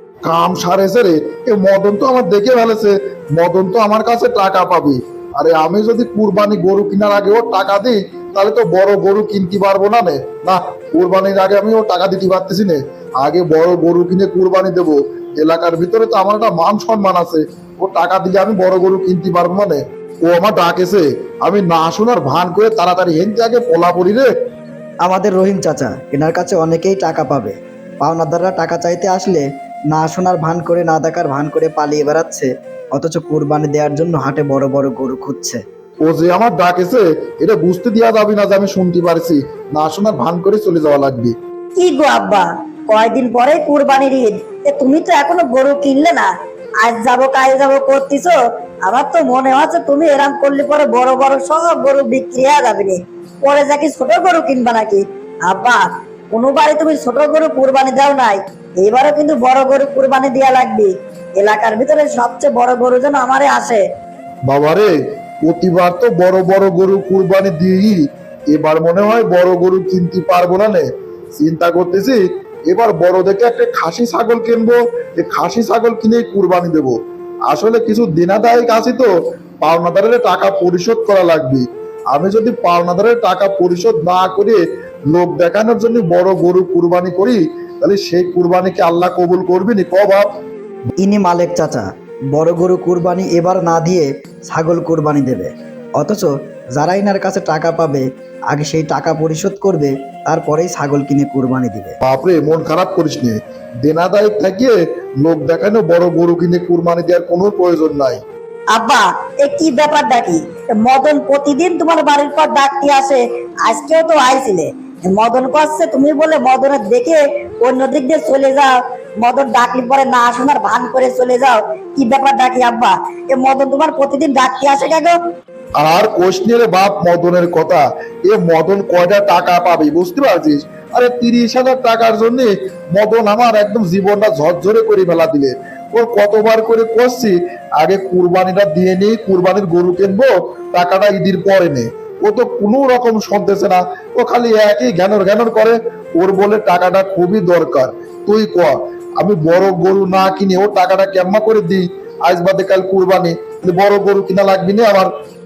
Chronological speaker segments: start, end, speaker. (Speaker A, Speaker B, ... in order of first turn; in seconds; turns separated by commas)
Speaker A: 0.2-24.3, Speaker B: 25.0-35.6, Speaker A: 36.1-41.4, Speaker C: 41.8-46.3, Speaker C: 46.8-63.8, Speaker A: 64.5-64.9, Speaker A: 65.5-70.8, Speaker A: 71.4-77.0, Speaker A: 77.5-79.1, Speaker A: 79.6-84.6, Speaker A: 85.1-90.3, Speaker B: 91.0-102.0, Speaker A: 102.0-108.2, Speaker C: 108.7-125.2, Speaker A: 125.8-155.1